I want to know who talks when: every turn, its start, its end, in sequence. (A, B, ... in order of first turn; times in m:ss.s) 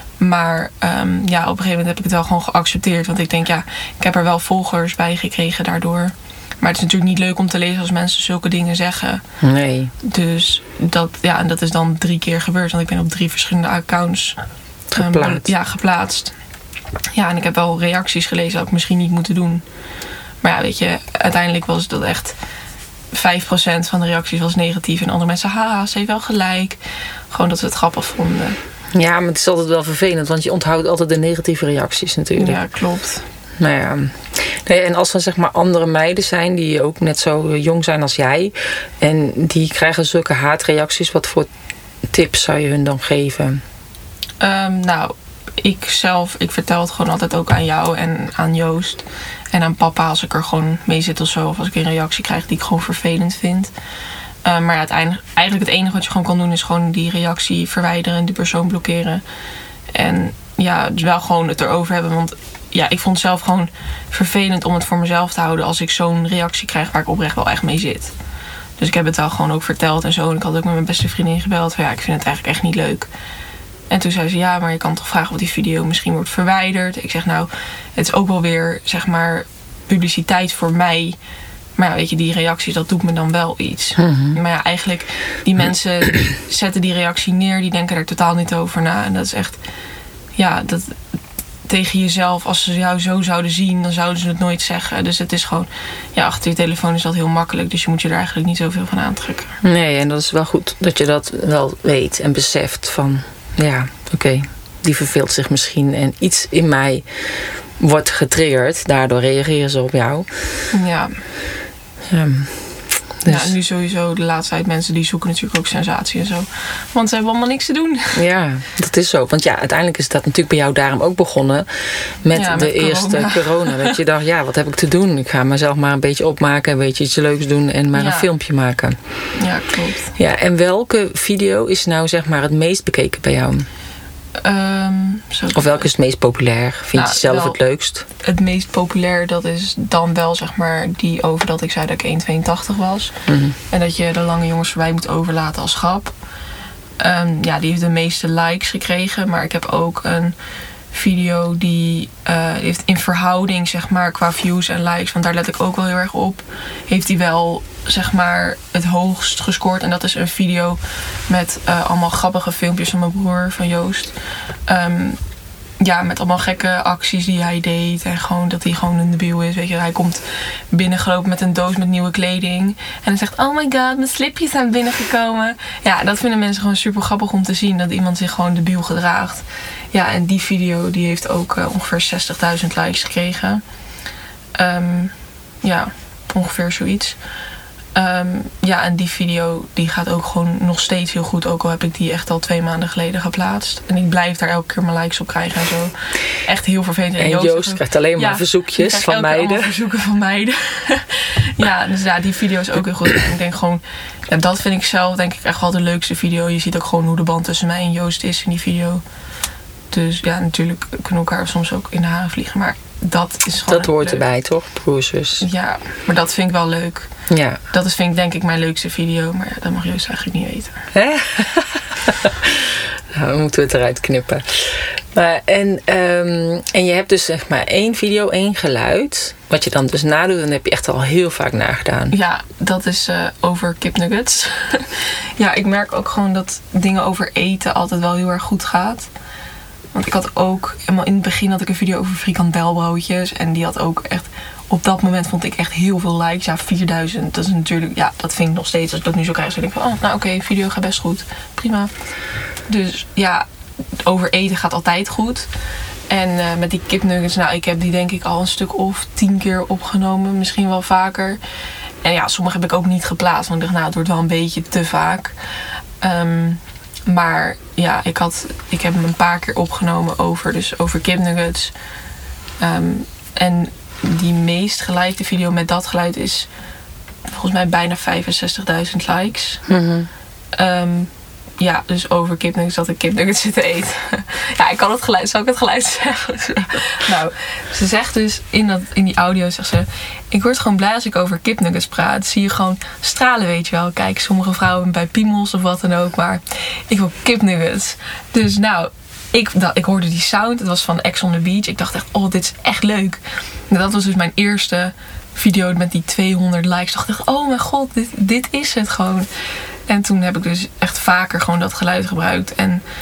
0:00.2-0:09.2 A
0:09.4-0:09.9 B
0:10.0-0:14.4 A
0:14.9-0:15.5 B
0:15.0-0:16.4 A
0:17.1-0:19.6 A
0:20.4-0:22.4 A
0:23.1-0:26.8 A
0:27.3-0:28.6 A
0:29.0-0:32.6 B
0:32.4-0:33.2 A
0:33.6-0:41.5 B
0:42.1-0:43.6 B
0:44.4-0:53.7 A
0:54.4-0:59.2 A
0:59.9-1:08.2 A
1:08.8-1:13.1 A
1:13.9-1:21.2 A
1:21.8-1:29.6 A
1:24.0-1:24.4 B
1:30.4-1:31.0 A
1:31.7-1:39.6 A
1:39.6-1:47.0 B
1:47.8-1:50.3 B
1:50.7-1:51.2 A
1:52.1-1:53.5 B
1:53.3-1:58.2 A
1:58.2-2:01.7 B
2:02.2-2:09.0 B
2:02.3-2:04.0 A
2:07.9-2:08.3 A
2:09.4-2:10.2 A
2:10.2-2:13.7 B
2:14.4-2:15.9 A
2:15.6-2:18.0 B
2:16.9-2:17.6 A
2:18.1-2:23.2 A
2:23.3-2:23.6 B
2:23.7-2:26.2 A
2:27.0-2:30.4 A
2:30.9-2:44.2 A
2:44.7-2:45.2 A
2:45.8-3:03.6 A
3:04.6-3:07.2 A
3:07.9-3:29.0 A
3:17.2-3:19.7 B
3:29.9-3:34.3 A
3:33.7-3:35.4 B
3:35.4-3:37.1 A
3:37.3-3:37.6 B
3:37.7-3:40.8 A
3:40.9-3:52.2 B
3:52.1-3:59.1 A
3:59.9-4:11.9 A
4:12.7-4:13.5 A
4:14.0-4:15.5 A
4:16.1-4:21.4 A
4:22.0-4:25.4 A
4:26.0-4:31.7 A
4:32.6-4:36.5 A
4:37.3-4:39.7 A
4:39.7-4:40.1 B
4:40.6-5:09.3 A
5:09.9-5:12.8 A